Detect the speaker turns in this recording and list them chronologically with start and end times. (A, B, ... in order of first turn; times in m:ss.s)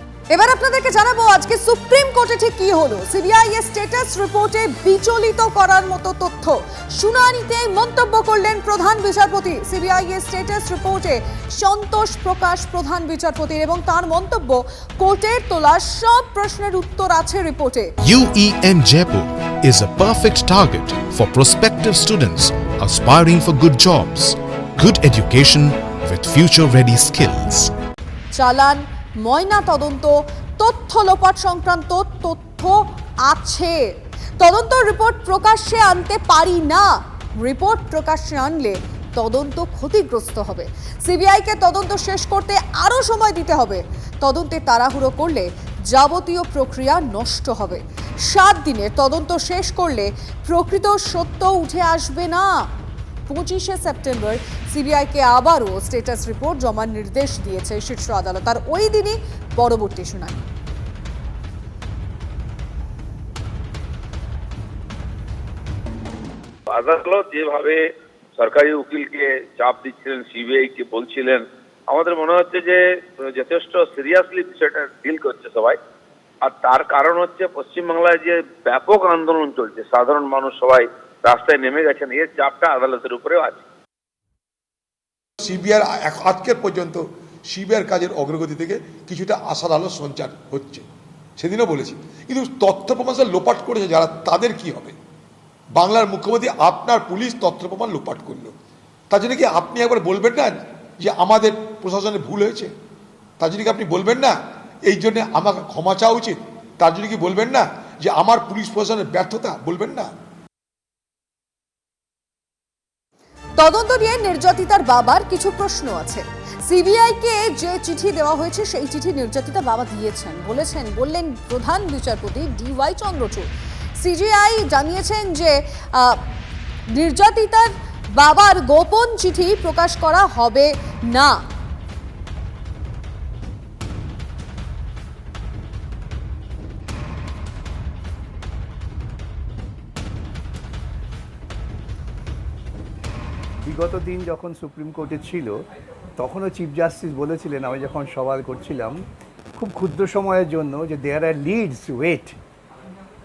0:00.3-0:17.9 A
0:18.0-0:27.7 B
0:28.3-0:33.8 A
0:34.4-0:52.6 A
0:53.3-1:00.4 A
1:06.7-1:07.8 C
1:08.4-1:15.8 C
1:16.4-1:23.6 C
1:25.4-1:30.8 D
1:31.4-1:34.9 D
1:35.8-1:38.5 D
1:39.1-1:42.7 D
1:43.4-1:50.1 D
1:53.6-2:06.2 A
2:07.0-2:11.4 A
2:23.6-2:25.6 E
2:26.2-2:29.0 E
2:29.6-2:32.3 E